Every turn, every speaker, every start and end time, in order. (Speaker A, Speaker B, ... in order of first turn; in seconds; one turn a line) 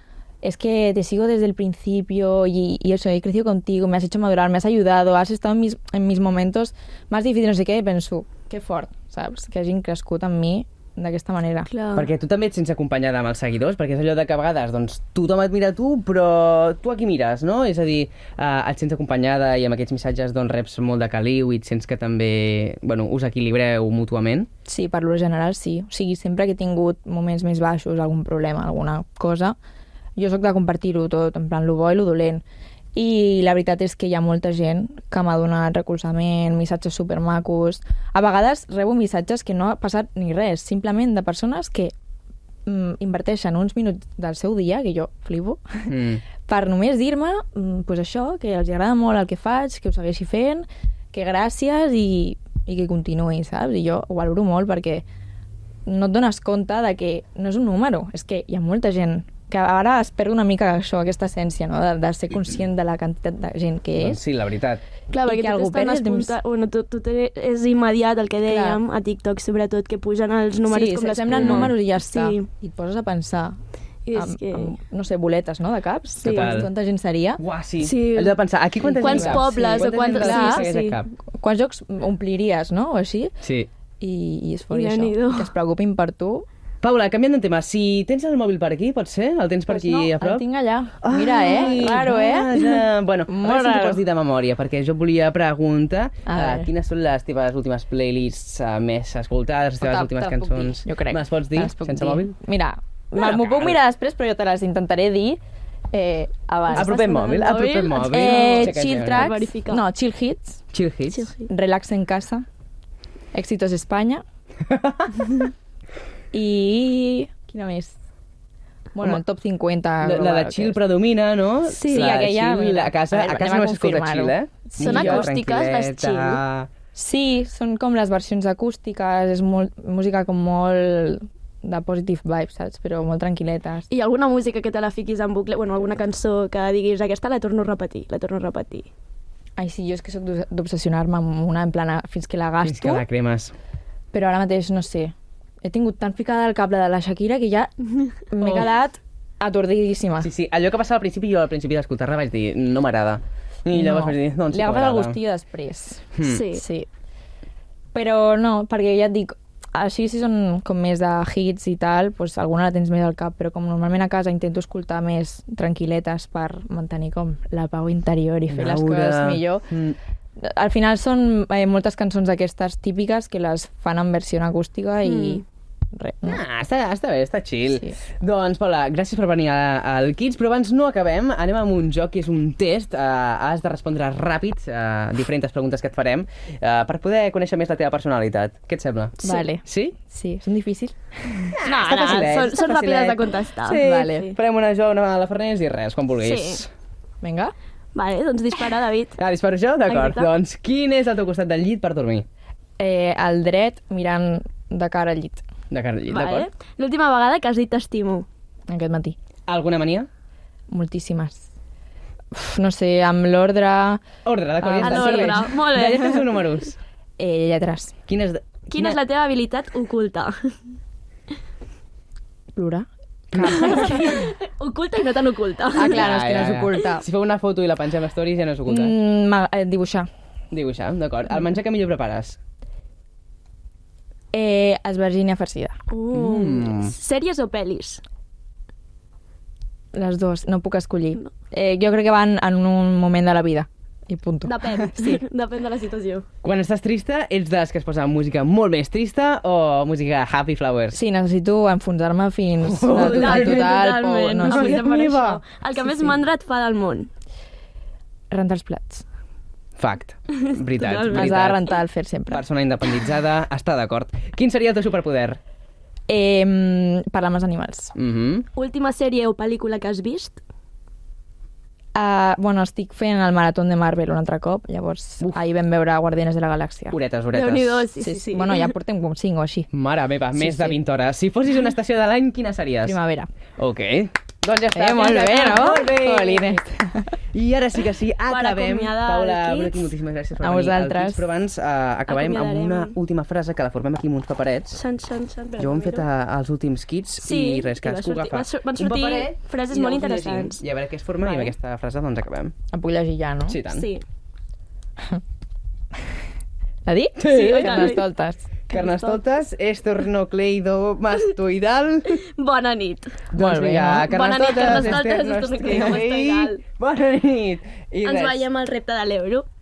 Speaker A: 0.4-11.7
Speaker B: 11.7-12.1
Speaker C: 11.9-24.5
Speaker A: 24.7-29.6
Speaker A: 30.2-32.4
Speaker A: 33.0-41.9
Speaker A: 42.7-55.0
Speaker C: 45.9-46.2
Speaker A: 55.9-64.2
Speaker C: 64.0-64.8
Speaker A: 65.1-66.4
Speaker B: 65.1-72.5
Speaker A: 68.4-68.8
Speaker A: 70.7-73.5
Speaker C: 71.4-71.7
Speaker B: 74.1-74.7
Speaker A: 74.1-77.4
Speaker B: 76.1-76.6
Speaker C: 76.2-76.7
Speaker C: 77.4-81.1
Speaker B: 77.8-78.4
Speaker A: 78.9-80.7
Speaker B: 78.9-81.0
Speaker A: 81.3-83.3
Speaker C: 83.4-83.7
Speaker A: 84.0-86.5
Speaker B: 84.7-85.5
Speaker C: 86.8-90.4
Speaker A: 89.7-92.6
Speaker C: 91.0-102.3
Speaker A: 93.3-94.0
Speaker A: 96.2-96.7
Speaker A: 99.8-105.4
Speaker C: 103.2-103.8
Speaker A: 105.9-107.1
Speaker B: 106.7-109.8
Speaker C: 106.7-109.3
Speaker A: 108.0-110.6
Speaker C: 110.7-111.3
Speaker B: 111.1-111.5
Speaker A: 111.5-112.4
Speaker A: 113.3-114.2
Speaker C: 114.7-115.1
Speaker A: 116.3-118.0
Speaker A: 118.9-120.8
Speaker C: 120.0-126.7
Speaker A: 121.7-125.3
Speaker B: 121.8-122.2
Speaker B: 124.8-126.4
Speaker A: 127.0-133.9
Speaker B: 133.9-138.9
Speaker A: 139.6-143.1
Speaker C: 142.6-143.5
Speaker A: 144.1-145.1
Speaker A: 145.6-150.3
Speaker C: 148.4-148.7
Speaker C: 150.2-155.2
Speaker A: 153.7-156.9
Speaker C: 156.2-156.5
Speaker B: 156.2-156.7
Speaker A: 157.9-169.7
Speaker C: 168.5-170.0
Speaker A: 170.4-175.4
Speaker B: 175.0-175.4
Speaker A: 175.9-176.4
Speaker C: 176.2-190.0
Speaker B: 189.2-189.5
Speaker A: 189.2-191.6
Speaker C: 191.4-196.7
Speaker B: 191.6-194.4
Speaker A: 193.8-194.3
Speaker B: 196.2-196.6
Speaker A: 197.2-197.5
Speaker B: 197.9-199.2
Speaker C: 199.2-202.3
Speaker B: 199.9-200.3
Speaker A: 202.8-205.4
Speaker C: 205.7-206.5
Speaker B: 206.1-208.3
Speaker A: 208.7-209.2
Speaker C: 209.5-210.1
Speaker A: 210.7-211.5
Speaker A: 212.3-214.0
Speaker C: 214.2-216.8
Speaker A: 214.6-216.3
Speaker B: 214.8-216.1
Speaker A: 217.2-217.9
Speaker C: 218.1-219.0
Speaker B: 218.7-220.6
Speaker A: 222.6-224.2
Speaker C: 223.3-224.0
Speaker B: 223.4-226.2
Speaker A: 225.8-227.1
Speaker C: 225.8-228.9
Speaker A: 228.7-230.1
Speaker C: 230.5-232.4
Speaker A: 234.3-235.8
Speaker B: 235.9-238.0
Speaker C: 236.1-236.9
Speaker A: 239.9-245.2
Speaker B: 244.4-246.3
Speaker C: 246.4-251.0
Speaker A: 250.9-254.7
Speaker C: 252.6-253.8
Speaker B: 252.9-257.1
Speaker C: 254.4-255.4
Speaker A: 255.8-256.2
Speaker A: 258.3-259.0
Speaker C: 259.8-265.4
Speaker B: 260.3-261.4
Speaker A: 261.1-262.4
Speaker A: 266.1-267.9
Speaker C: 267.9-268.5
Speaker B: 268.5-270.4
Speaker A: 271.9-277.0
Speaker C: 276.9-277.9
Speaker B: 277.3-278.8
Speaker A: 278.0-279.7
Speaker C: 279.7-283.0
Speaker A: 280.4-280.8
Speaker A: 282.8-283.3
Speaker C: 283.6-286.6
Speaker A: 284.7-287.1
Speaker C: 287.3-294.8
Speaker B: 288.3-289.9
Speaker A: 290.4-291.3
Speaker B: 292.1-293.0
Speaker B: 294.7-296.1
Speaker C: 295.6-302.5
Speaker B: 297.2-300.6
Speaker B: 301.2-301.5
Speaker A: 302.7-303.6
Speaker C: 303.5-303.9
Speaker B: 303.7-304.0
Speaker A: 306.9-308.9
Speaker C: 307.2-307.6
Speaker B: 307.2-308.1
Speaker C: 308.7-312.2
Speaker B: 308.8-309.3
Speaker B: 312.1-313.3
Speaker C: 313.3-318.4
Speaker A: 313.4-315.0
Speaker B: 314.0-316.6
Speaker A: 315.7-316.0
Speaker B: 318.0-319.5